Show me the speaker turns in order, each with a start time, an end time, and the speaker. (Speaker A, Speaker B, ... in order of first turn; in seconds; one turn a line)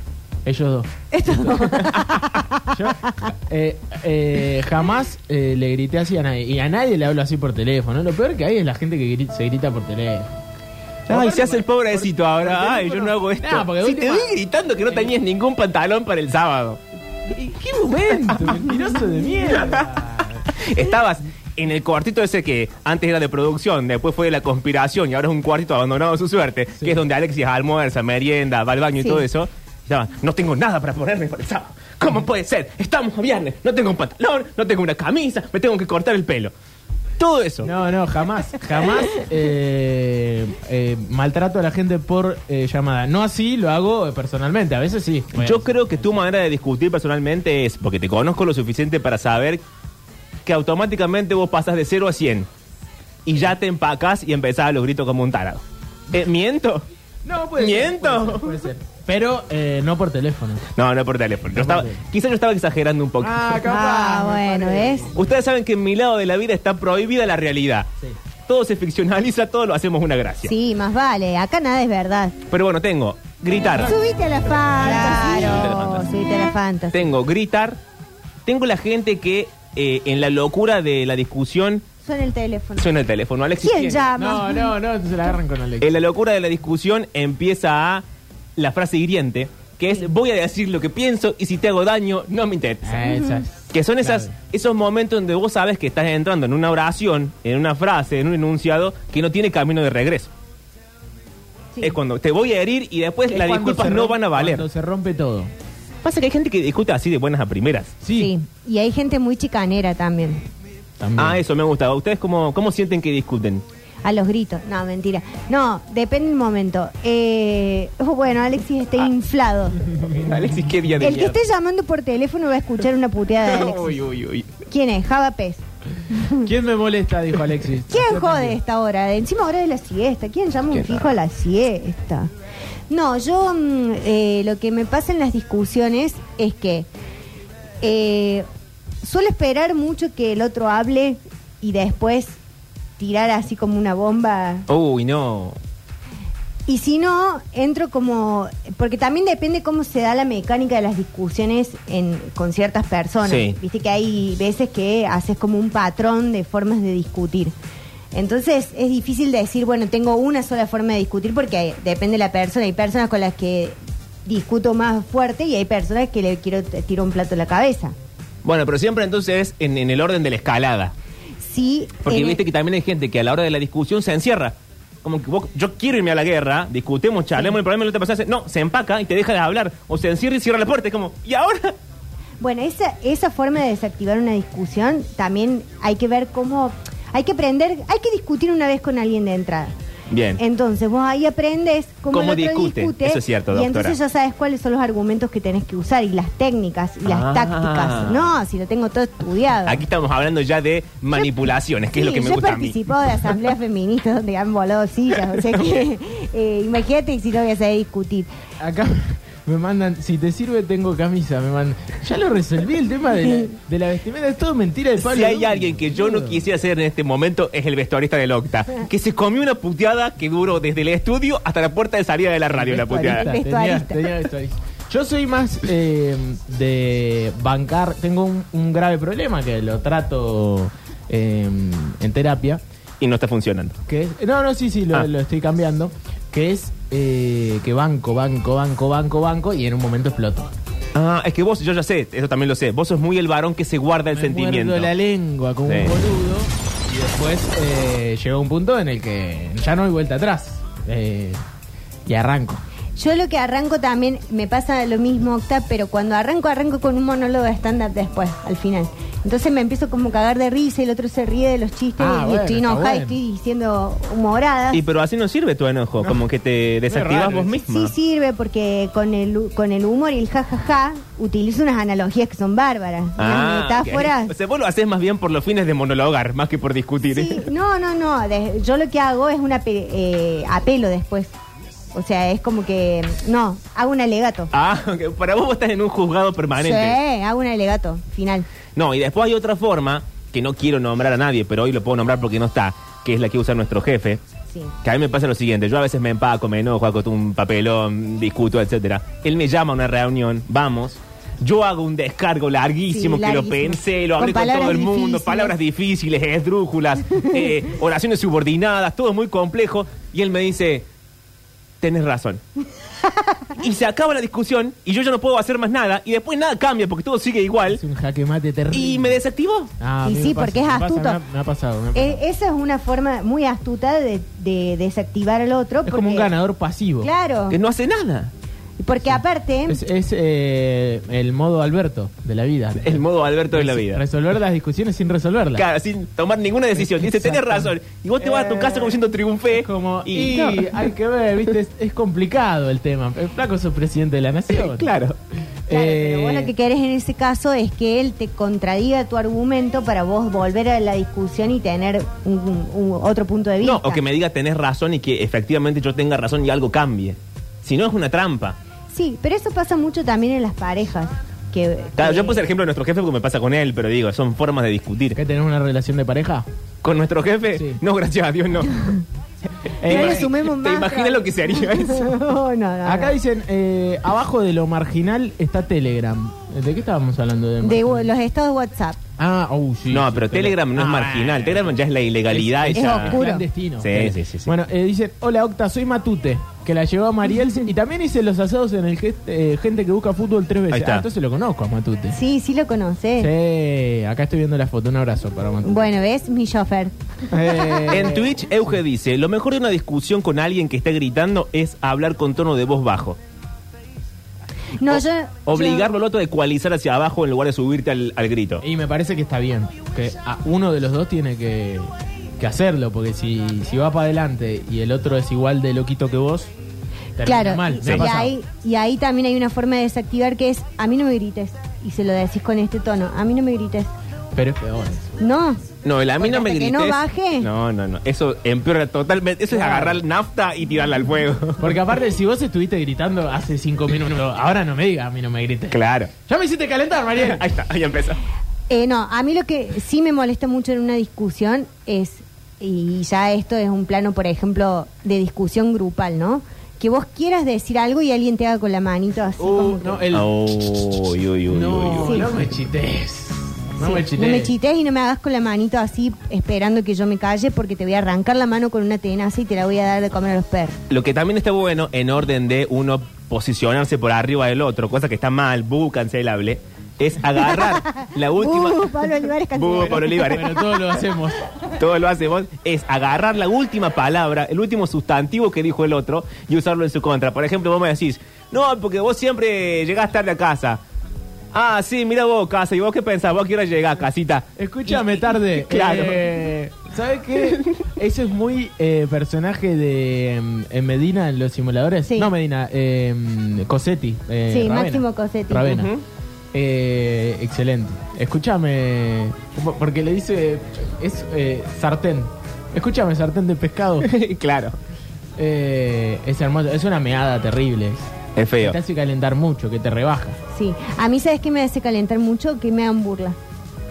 Speaker A: 0.5-0.9
Speaker B: 1.1-3.1
Speaker A: 2.7-10.3
Speaker A: 11.1-14.4
Speaker C: 11.1-16.8
Speaker A: 17.3-20.5
Speaker C: 18.3-18.6
Speaker C: 19.6-19.8
Speaker C: 20.6-36.5
Speaker A: 26.8-27.0
Speaker B: 29.0-29.2
Speaker C: 37.2-37.7
Speaker A: 37.6-45.9
Speaker C: 45.4-49.6
Speaker C: 50.5-52.5
Speaker C: 53.3-56.9
Speaker A: 57.2-60.7
Speaker C: 57.6-58.6
Speaker C: 60.8-63.6
Speaker A: 61.5-62.0
Speaker A: 63.2-65.2
Speaker B: 63.6-65.1
Speaker C: 65.2-67.9
Speaker C: 68.5-70.5
Speaker B: 70.5-72.4
Speaker C: 72.5-74.0
Speaker B: 73.8-77.1
Speaker C: 74.8-76.1
Speaker C: 76.9-77.8
Speaker C: 78.5-81.9
Speaker B: 82.0-82.9
Speaker C: 82.8-84.0
Speaker B: 83.6-84.7
Speaker A: 84.2-85.9
Speaker C: 85.8-88.0
Speaker C: 88.6-93.2
Speaker A: 92.8-94.3
Speaker C: 93.7-100.3
Speaker C: 101.8-104.7
Speaker A: 103.3-105.5
Speaker C: 106.0-108.0
Speaker A: 108.0-108.3
Speaker B: 108.1-110.4
Speaker A: 111.0-111.4
Speaker C: 111.2-113.6
Speaker B: 114.0-119.9
Speaker C: 119.9-121.4
Speaker B: 121.0-124.0
Speaker C: 123.4-124.6
Speaker B: 124.7-126.5
Speaker A: 126.4-128.6
Speaker B: 127.9-132.3
Speaker C: 130.7-131.1
Speaker B: 132.9-136.9
Speaker B: 137.8-138.5
Speaker B: 139.0-142.4
Speaker B: 143.0-144.7
Speaker C: 144.7-145.6
Speaker B: 146.7-157.5
Speaker C: 153.2-153.6
Speaker B: 158.1-167.9
Speaker C: 168.4-170.9
Speaker B: 171.4-172.4
Speaker C: 172.1-181.8
Speaker B: 182.4-189.7
Speaker C: 190.1-190.4
Speaker B: 190.4-199.8
Speaker C: 192.1-194.0
Speaker C: 197.1-198.3
Speaker C: 199.7-203.3
Speaker B: 201.9-208.3
Speaker C: 205.3-205.8
Speaker A: 208.6-216.4
Speaker C: 215.0-223.3
Speaker A: 222.6-232.6
Speaker B: 222.9-224.1
Speaker C: 233.0-233.8
Speaker A: 233.9-240.5
Speaker C: 240.9-244.9
Speaker A: 244.1-251.4
Speaker C: 245.7-246.0
Speaker A: 252.1-252.6
Speaker B: 253.0-264.8
Speaker A: 262.0-263.2
Speaker C: 264.7-267.9
Speaker A: 266.9-267.5
Speaker B: 267.5-274.3
Speaker C: 273.2-277.5
Speaker B: 277.1-281.3
Speaker B: 281.9-284.5
Speaker C: 284.5-287.0
Speaker B: 286.6-288.5
Speaker C: 288.8-294.2
Speaker C: 294.8-310.9
Speaker B: 302.9-305.6
Speaker C: 311.8-312.4
Speaker C: 313.6-317.8
Speaker A: 317.7-319.2
Speaker C: 318.7-319.7
Speaker A: 319.8-322.2
Speaker B: 320.0-321.2
Speaker B: 321.9-326.3
Speaker A: 325.9-327.1
Speaker B: 327.0-327.6
Speaker C: 327.5-328.3
Speaker B: 328.8-329.8
Speaker A: 329.1-335.7
Speaker C: 332.8-334.0
Speaker C: 335.6-340.8
Speaker A: 336.8-337.7
Speaker A: 338.2-338.9
Speaker A: 339.5-344.9
Speaker C: 344.5-345.2
Speaker A: 345.7-346.5
Speaker B: 345.7-354.0
Speaker C: 353.6-358.6
Speaker B: 358.9-362.4
Speaker C: 362.0-365.2
Speaker A: 365.1-366.5
Speaker C: 366.8-369.0
Speaker A: 367.5-367.8
Speaker A: 369.8-370.3
Speaker C: 369.8-372.1
Speaker B: 369.8-373.2
Speaker A: 372.8-378.1
Speaker B: 377.6-379.0
Speaker A: 379.2-381.8
Speaker C: 379.9-383.2
Speaker A: 382.3-392.2
Speaker B: 382.7-383.5
Speaker C: 383.8-384.5
Speaker C: 390.7-391.1
Speaker B: 392.1-393.3
Speaker A: 393.2-395.9
Speaker B: 395.6-396.9
Speaker A: 397.3-398.4
Speaker B: 397.6-397.9
Speaker C: 397.9-403.2
Speaker B: 404.8-405.9
Speaker C: 404.9-408.6
Speaker A: 408.6-416.5
Speaker A: 417.2-418.3
Speaker B: 417.2-423.9
Speaker C: 417.8-418.2
Speaker A: 424.4-425.1
Speaker B: 425.2-425.6
Speaker C: 425.8-431.7
Speaker B: 426.2-427.5
Speaker A: 429.5-430.0
Speaker A: 431.6-437.4
Speaker C: 435.7-436.1
Speaker C: 437.2-438.2
Speaker B: 438.7-450.0
Speaker A: 449.4-450.3
Speaker C: 450.1-452.3
Speaker A: 451.5-454.5
Speaker B: 452.0-452.3
Speaker B: 453.8-460.8
Speaker C: 460.9-470.6
Speaker B: 467.5-470.4
Speaker A: 470.2-471.4
Speaker C: 471.8-480.8
Speaker C: 481.5-486.3
Speaker A: 484.6-495.9
Speaker B: 494.5-495.8
Speaker C: 495.7-496.0
Speaker A: 496.5-504.1
Speaker C: 504.0-504.8
Speaker A: 505.4-510.4
Speaker C: 508.4-508.8
Speaker B: 510.5-513.4